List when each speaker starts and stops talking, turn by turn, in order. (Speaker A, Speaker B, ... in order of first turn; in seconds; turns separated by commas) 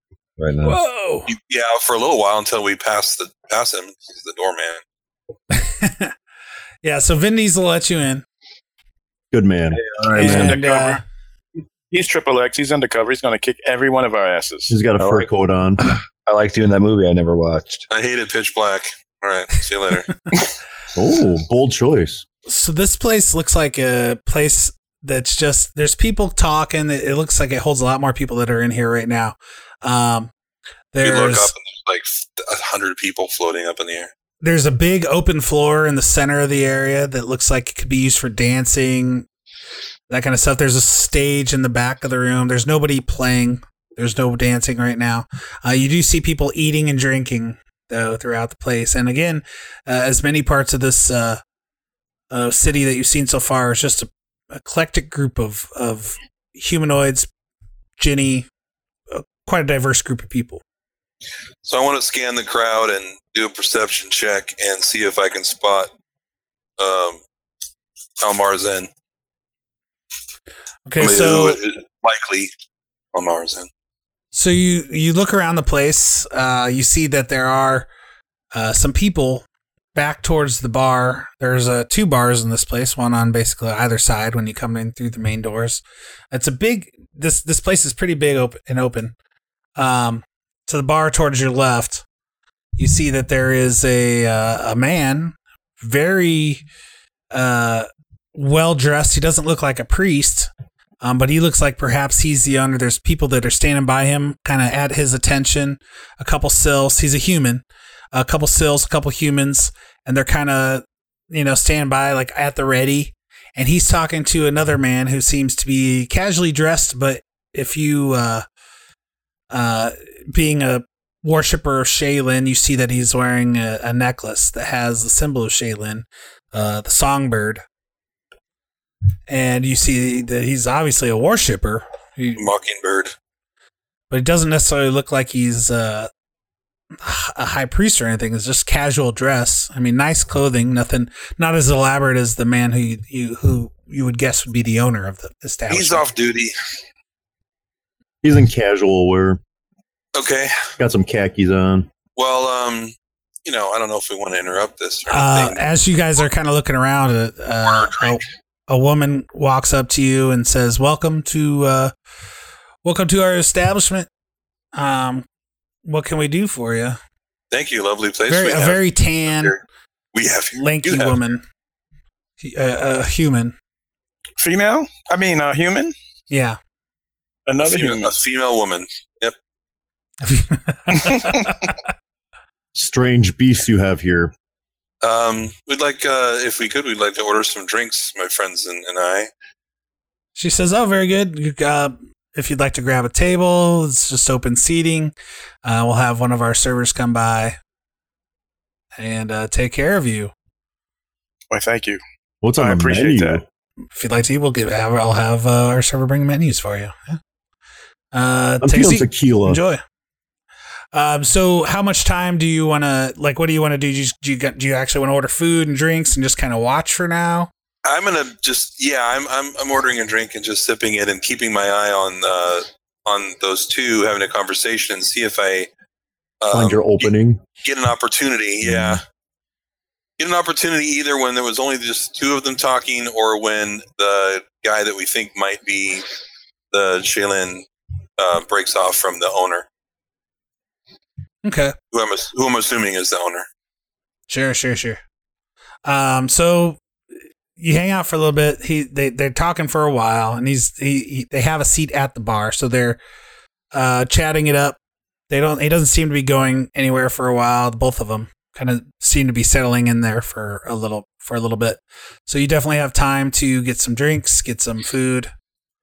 Speaker A: 0.4-0.8, Speaker B: 0.6-1.3, Speaker C: 1.3-4.8, Speaker B: 5.5-6.1, Speaker B: 6.8-8.2, Speaker D: 9.3-10.6, Speaker A: 9.8-10.6, Speaker B: 10.1-11.0, Speaker E: 10.2-11.0, Speaker E: 11.9-14.8, Speaker D: 14.7-15.9, Speaker A: 15.0-15.3, Speaker A: 15.8-17.8, Speaker C: 17.9-20.1, Speaker D: 20.9-22.2, Speaker B: 22.4-30.3, Speaker B: 30.9-31.5, Speaker C: 31.0-34.1, Speaker B: 34.4-39.3, Speaker B: 40.1-51.4, Speaker B: 52.3-57.3, Speaker B: 58.0-58.5, Speaker B: 59.1-60.6, Speaker C: 61.6-65.9, Speaker C: 66.8-67.2, Speaker C: 68.2-68.9, Speaker B: 70.9-71.6, Speaker C: 71.0-72.5, Speaker C: 73.1-73.7, Speaker B: 74.3-77.9, Speaker B: 78.5-89.1, Speaker B: 89.8-92.0, Speaker B: 92.8-96.6, Speaker B: 97.3-100.5, Speaker B: 101.0-118.4, Speaker B: 119.5-127.6, Speaker B: 129.3-132.4, Speaker C: 132.4-133.1, Speaker B: 134.1-136.1, Speaker B: 137.0-146.1, Speaker C: 145.7-146.5, Speaker D: 148.2-149.4, Speaker C: 150.1-150.5, Speaker D: 150.8-151.9, Speaker C: 152.2-152.9, Speaker C: 153.4-155.6, Speaker B: 155.1-161.9, Speaker C: 157.7-158.2, Speaker B: 162.8-164.1, Speaker B: 164.7-165.2, Speaker B: 165.8-167.0, Speaker C: 167.5-169.6, Speaker B: 168.3-169.6, Speaker C: 170.1-171.2, Speaker B: 170.5-171.4, Speaker B: 172.4-173.5, Speaker E: 174.4-175.9, Speaker B: 176.3-176.6, Speaker E: 177.4-178.2, Speaker C: 177.6-179.3, Speaker B: 180.2-181.7, Speaker D: 182.7-184.3, Speaker C: 185.0-189.3, Speaker B: 190.3-197.6, Speaker B: 199.0-200.3, Speaker E: 201.5-202.0, Speaker D: 202.4-203.4, Speaker E: 202.6-203.4, Speaker B: 203.9-207.2, Speaker B: 208.1-209.8, Speaker D: 208.6-209.6, Speaker B: 210.9-217.5, Speaker C: 217.8-225.7, Speaker C: 226.4-227.1, Speaker D: 226.5-227.4, Speaker C: 227.6-229.0, Speaker D: 228.6-229.0, Speaker C: 230.2-236.1, Speaker C: 236.7-237.6, Speaker C: 238.2-239.7, Speaker B: 241.4-241.7, Speaker C: 241.9-243.4, Speaker B: 244.3-245.0, Speaker B: 245.8-246.8, Speaker B: 247.6-253.0, Speaker B: 253.7-254.8, Speaker B: 255.3-265.3